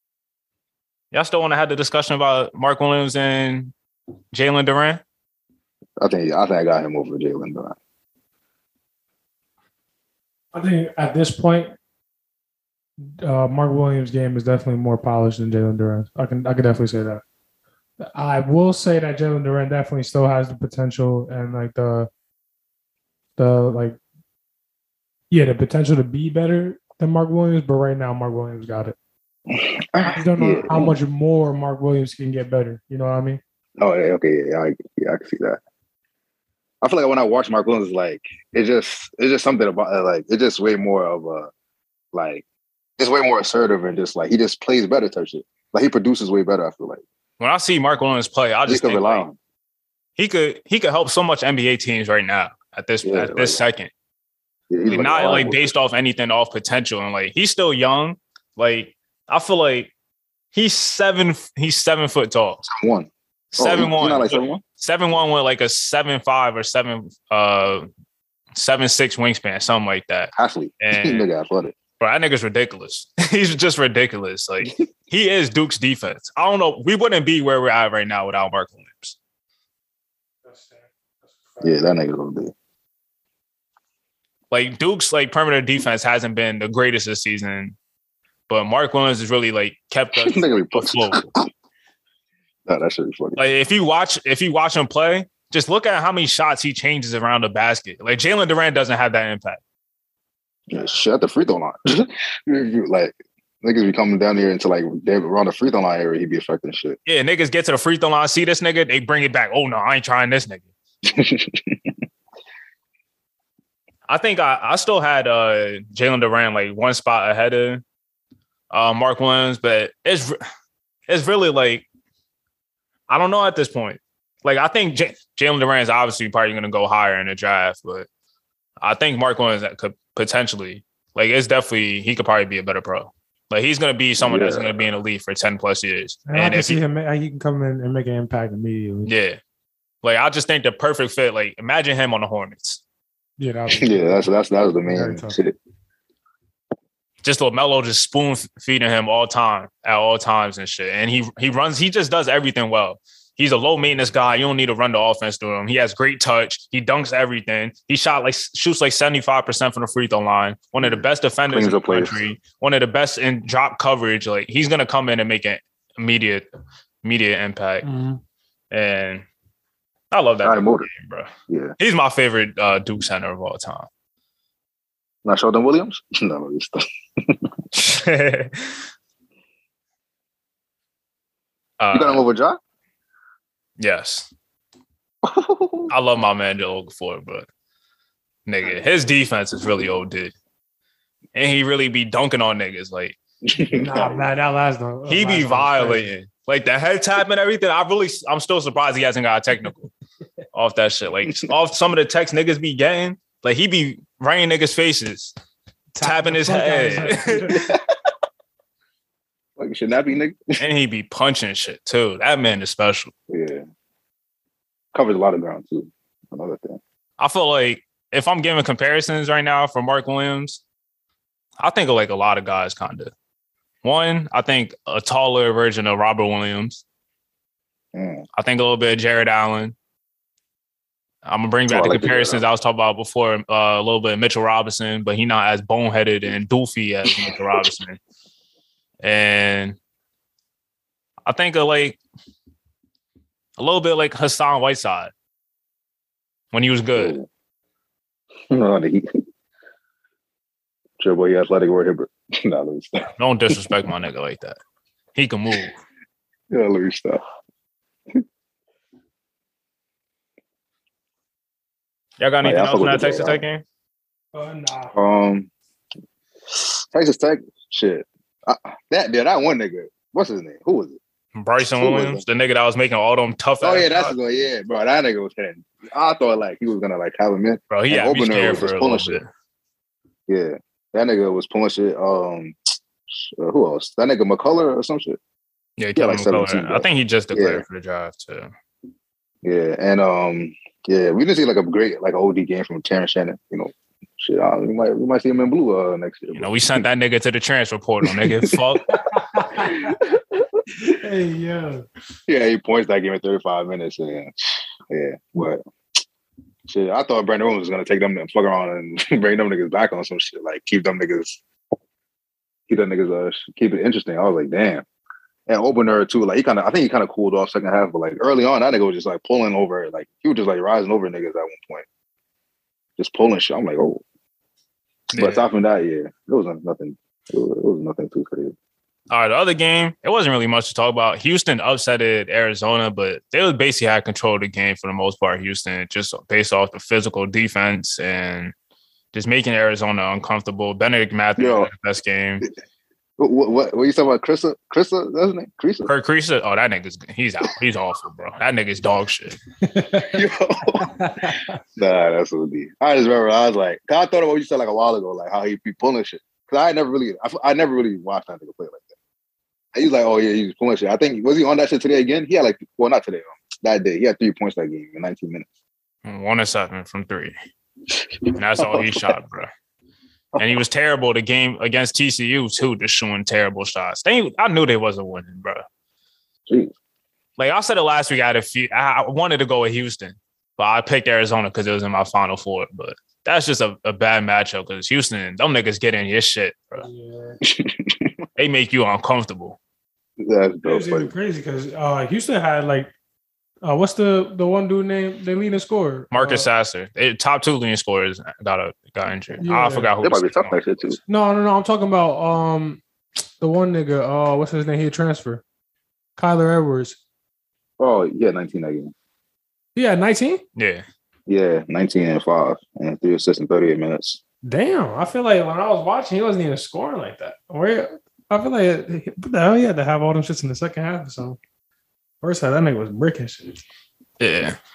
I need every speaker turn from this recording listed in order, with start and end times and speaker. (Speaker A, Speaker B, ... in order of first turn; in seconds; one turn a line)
Speaker A: 1.1-3.7
Speaker A: 4.3-5.0
Speaker B: 6.0-7.8
Speaker C: 10.5-11.7
Speaker C: 13.2-17.2
Speaker C: 18.1-22.1
Speaker C: 23.4-24.0
Speaker C: 25.3-29.0
Speaker B: 29.5-31.0
Speaker C: 30.0-33.4
Speaker B: 33.8-35.6
Speaker B: 36.8-41.5
Speaker B: 42.1-42.5
Speaker B: 43.0-47.0
Speaker A: 47.4-49.2
Speaker B: 48.7-49.4
Speaker A: 50.2-53.9
Speaker B: 53.0-53.6
Speaker B: 54.7-55.7
Speaker A: 54.9-59.9
Speaker A: 60.5-62.6
Speaker B: 62.7-64.6
Speaker A: 63.5-67.9
Speaker A: 68.5-71.3
Speaker B: 70.4-71.8
Speaker A: 72.0-79.2
Speaker C: 80.5-81.8
Speaker B: 81.6-82.5
Speaker A: 84.5-87.8
Speaker A: 88.5-91.3
Speaker B: 90.1-91.5
Speaker B: 92.7-93.4
Speaker A: 93.4-99.6
Speaker B: 100.7-107.0
Speaker A: 107.1-110.7
Speaker B: 111.0-111.9
Speaker A: 114.1-117.8
Speaker A: 118.7-120.4
Speaker A: 121.1-121.9
Speaker A: 123.1-128.1
Speaker A: 128.8-136.8
Speaker B: 134.2-134.8
Speaker C: 136.3-139.1
Speaker A: 139.1-139.4
Speaker A: 140.0-142.8
Speaker C: 143.4-144.3
Speaker B: 143.7-145.6
Speaker C: 144.8-145.4
Speaker A: 147.2-166.5
Speaker B: 160.8-162.2
Speaker A: 167.0-167.9
Speaker C: 167.8-168.2
Speaker A: 168.7-169.2
Speaker A: 170.1-173.9
Speaker B: 170.4-170.9
Speaker B: 171.5-171.8
Speaker B: 175.2-177.5
Speaker A: 177.7-178.8
Speaker A: 181.8-182.2
Speaker B: 181.9-182.6
Speaker A: 183.8-184.3
Speaker B: 185.2-185.9
Speaker A: 185.9-187.5
Speaker A: 188.5-190.3
Speaker A: 191.3-193.2
Speaker B: 193.4-194.3
Speaker C: 193.7-196.1
Speaker A: 195.1-199.9
Speaker A: 200.5-205.3
Speaker C: 205.9-207.7
Speaker A: 206.0-207.7
Speaker B: 207.6-207.8
Speaker B: 209.6-210.6
Speaker A: 210.6-213.1
Speaker B: 213.3-213.6
Speaker B: 214.9-216.8
Speaker A: 217.2-220.6
Speaker A: 221.6-223.1
Speaker A: 223.8-226.8
Speaker B: 227.9-228.2
Speaker A: 228.4-229.8
Speaker A: 231.2-238.0
Speaker B: 231.7-232.4
Speaker B: 237.1-237.4
Speaker A: 239.0-239.8
Speaker A: 241.2-242.0
Speaker A: 243.6-245.1
Speaker A: 246.5-247.2
Speaker B: 246.9-247.3
Speaker B: 248.5-249.1
Speaker B: 251.0-253.7
Speaker A: 253.2-254.6
Speaker A: 255.2-255.8
Speaker B: 256.5-257.2
Speaker A: 262.2-263.6
Speaker B: 262.4-263.4
Speaker C: 264.3-264.9
Speaker B: 264.9-265.5
Speaker B: 266.5-271.0
Speaker A: 271.4-274.1
Speaker B: 271.8-272.2
Speaker B: 273.6-279.2
Speaker A: 277.7-279.3
Speaker B: 280.3-282.6
Speaker B: 283.1-285.2
Speaker A: 285.8-288.5
Speaker B: 286.0-287.6
Speaker B: 289.4-296.9
Speaker A: 296.4-299.0
Speaker B: 298.0-298.8
Speaker C: 299.1-300.0
Speaker B: 299.5-300.5
Speaker C: 300.8-301.8
Speaker B: 302.3-305.6
Speaker B: 306.7-311.4
Speaker B: 312.7-314.9
Speaker B: 315.5-321.9
Speaker B: 323.0-324.0
Speaker A: 325.1-325.5
Speaker B: 325.1-328.5
Speaker A: 329.1-338.5
Speaker A: 339.1-342.5
Speaker B: 341.4-341.7
Speaker B: 343.2-345.9
Speaker A: 345.9-349.4
Speaker C: 349.6-350.2
Speaker B: 350.1-350.9
Speaker C: 350.8-351.6
Speaker B: 351.8-358.9
Speaker B: 359.7-365.5
Speaker A: 366.0-367.3
Speaker B: 367.9-369.1
Speaker A: 368.4-369.5
Speaker B: 370.4-370.6
Speaker A: 370.4-375.6
Speaker B: 376.5-376.8
Speaker A: 377.4-386.9
Speaker C: 386.8-387.4
Speaker B: 387.4-388.1
Speaker A: 388.4-389.6
Speaker B: 390.2-391.1
Speaker C: 390.6-392.9
Speaker C: 393.6-396.5
Speaker A: 396.1-400.7
Speaker C: 399.4-399.9
Speaker B: 400.0-401.0
Speaker C: 401.1-402.8
Speaker C: 403.4-405.4
Speaker C: 406.2-407.0
Speaker B: 407.8-408.9
Speaker C: 409.8-410.4
Speaker A: 410.6-410.9
Speaker B: 411.3-414.2
Speaker C: 414.4-421.4
Speaker C: 422.2-423.6
Speaker A: 424.2-424.6